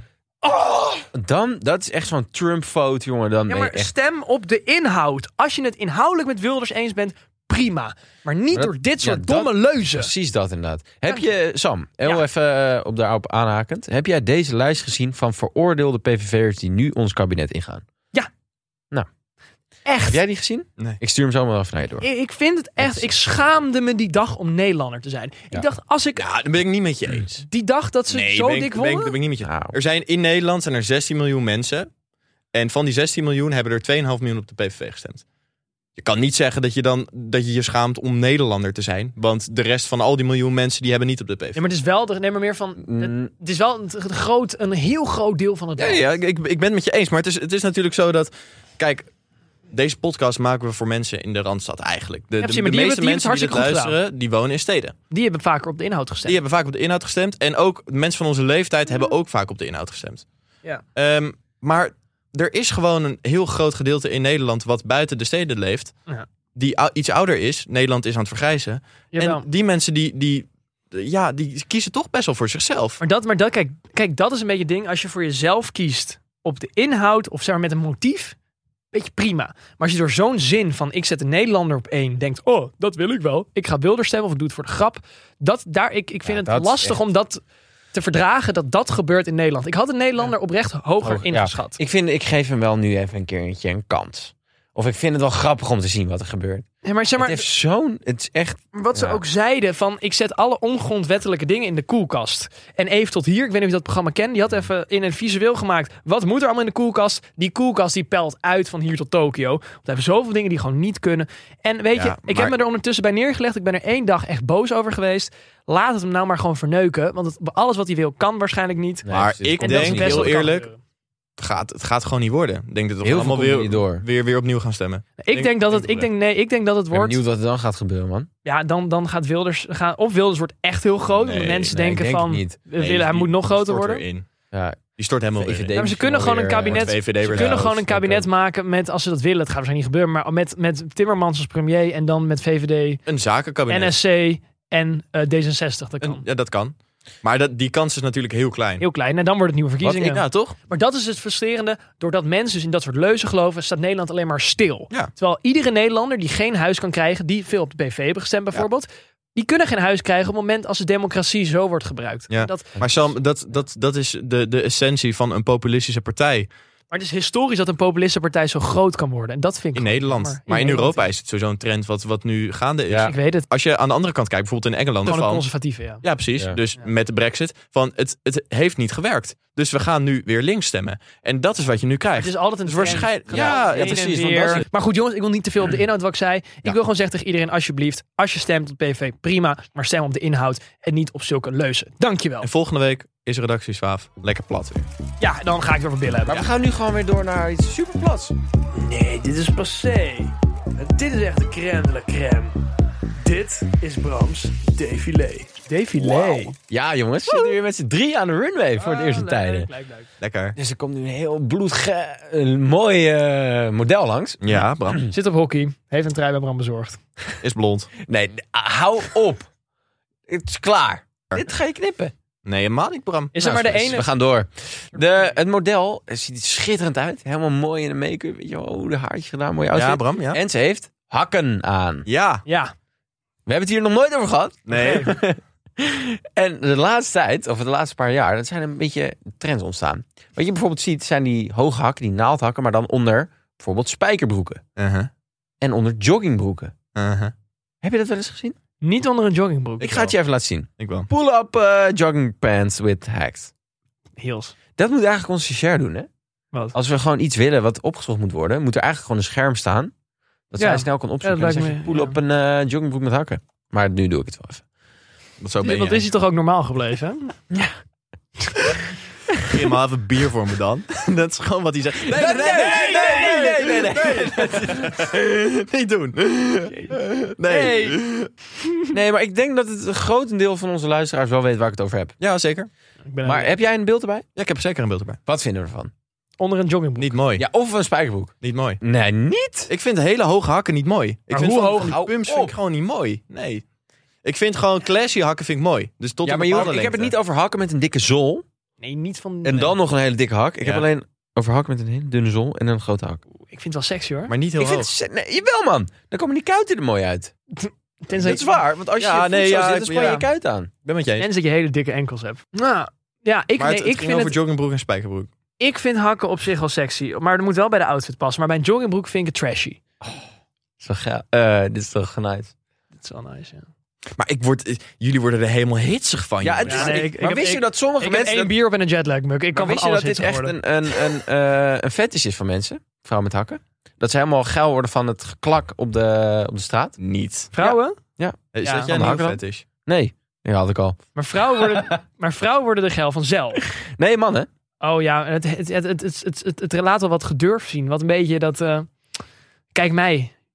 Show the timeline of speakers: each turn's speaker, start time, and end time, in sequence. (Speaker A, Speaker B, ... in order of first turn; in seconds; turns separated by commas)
Speaker A: 0.4-1.1, Speaker B: 1.1-3.9, Speaker A: 3.5-10.1, Speaker B: 8.5-17.8, Speaker A: 19.9-20.2, Speaker B: 20.1-22.1, Speaker A: 22.0-26.2, Speaker B: 22.8-23.1, Speaker C: 26.2-27.4, Speaker A: 27.5-29.1, Speaker C: 28.1-31.9, Speaker B: 29.4-29.7, Speaker C: 32.5-35.2, Speaker C: 36.0-41.6, Speaker A: 41.5-46.0, Speaker B: 42.8-43.3, Speaker C: 45.8-49.1, Speaker C: 49.7-54.9, Speaker A: 52.4-54.0, Speaker A: 55.1-56.4, Speaker C: 56.2-60.2, Speaker C: 61.0-65.9, Speaker C: 66.5-73.0, Speaker A: 69.1-69.4, Speaker A: 73.0-78.3, Speaker A: 78.9-87.4, Speaker B: 86.2-87.0, Speaker A: 87.9-91.8, Speaker B: 91.0-96.7, Speaker A: 96.8-97.4, Speaker B: 97.2-99.2, Speaker A: 98.7-120.8, Speaker C: 112.0-112.5, Speaker B: 119.0-120.5, Speaker C: 119.1-120.7, Speaker C: 121.4-126.1, Speaker B: 123.0-124.0, Speaker A: 125.2-127.2, Speaker B: 126.9-128.3, Speaker A: 128.4-134.0, Speaker C: 131.2-131.7, Speaker B: 131.7-132.6, Speaker C: 132.8-134.2, Speaker B: 134.5-134.8, Speaker C: 134.9-135.7, Speaker B: 135.4-138.3, Speaker A: 135.7-143.0, Speaker C: 136.7-137.7, Speaker C: 143.1-143.9, Speaker A: 143.7-146.2, Speaker C: 146.0-148.8, Speaker A: 148.8-162.7, Speaker C: 149.8-150.6, Speaker C: 162.3-166.5, Speaker A: 166.9-171.0, Speaker C: 169.7-175.4, Speaker B: 172.9-173.1, Speaker A: 173.0-173.4, Speaker A: 175.0-176.0, Speaker C: 176.0-184.6, Speaker A: 182.2-192.5, Speaker B: 183.3-184.6, Speaker C: 192.4-194.9, Speaker A: 195.2-196.5, Speaker B: 196.2-198.3, Speaker A: 198.7-202.6, Speaker A: 203.1-206.5, Speaker B: 206.7-209.7, Speaker A: 208.8-210.1, Speaker C: 210.2-210.6, Speaker B: 210.6-215.0, Speaker C: 214.4-215.0, Speaker A: 215.1-217.0, Speaker C: 217.4-217.9, Speaker B: 218.0-219.5, Speaker B: 220.3-222.1, Speaker C: 222.4-224.0, Speaker A: 223.3-224.1, Speaker B: 223.4-232.1, Speaker A: 225.0-225.3, Speaker C: 229.7-230.4, Speaker C: 232.1-232.4, Speaker A: 232.4-232.7, Speaker B: 233.4-244.6, Speaker C: 234.7-235.1, Speaker A: 234.7-235.1, Speaker C: 244.8-245.1, Speaker B: 245.6-246.7, Speaker C: 246.9-247.3, Speaker B: 247.8-248.6, Speaker A: 248.8-250.1, Speaker B: 249.8-253.5, Speaker C: 250.8-251.1, Speaker A: 254.2-254.5, Speaker B: 254.8-256.1, Speaker B: 256.7-259.9, Speaker B: 260.5-264.6, Speaker A: 260.6-262.1, Speaker C: 265.4-266.1, Speaker A: 265.6-267.3, Speaker C: 269.5-278.3, Speaker B: 272.0-275.0, Speaker A: 276.7-277.0, Speaker A: 277.5-278.0, Speaker B: 278.9-282.1, Speaker C: 282.2-282.7, Speaker A: 283.1-283.5, Speaker B: 283.2-284.2, Speaker C: 284.4-285.2, Speaker B: 285.3-285.9, Speaker A: 286.4-287.2, Speaker C: 287.0-287.4, Speaker B: 287.4-289.7, Speaker C: 288.4-288.8, Speaker C: 289.7-293.6, Speaker A: 291.3-291.9, Speaker B: 291.7-292.6, Speaker C: 294.2-297.1, Speaker B: 296.2-298.4, Speaker A: 298.8-299.8, Speaker B: 299.4-303.2, Speaker A: 303.4-304.3, Speaker C: 304.3-304.9, Speaker B: 304.6-307.3, Speaker A: 307.5-308.6, Speaker B: 308.1-310.7, Speaker C: 309.0-310.2, Speaker C: 310.8-311.3, Speaker A: 311.2-314.4, Speaker C: 313.6-315.3, Speaker A: 315.6-319.8, Speaker B: 320.8-322.5, Speaker A: 323.0-323.7, Speaker C: 324.2-327.0, Speaker B: 326.4-328.5, Speaker A: 326.7-331.1, Speaker B: 329.5-336.9, Speaker C: 337.0-337.5, Speaker A: 337.5-338.0, Speaker B: 337.6-341.0, Speaker C: 338.5-339.6, Speaker A: 338.6-338.9, Speaker A: 341.1-343.6, Speaker B: 341.6-341.9, Speaker B: 343.6-344.5, Speaker A: 344.8-348.9, Speaker A: 349.7-350.3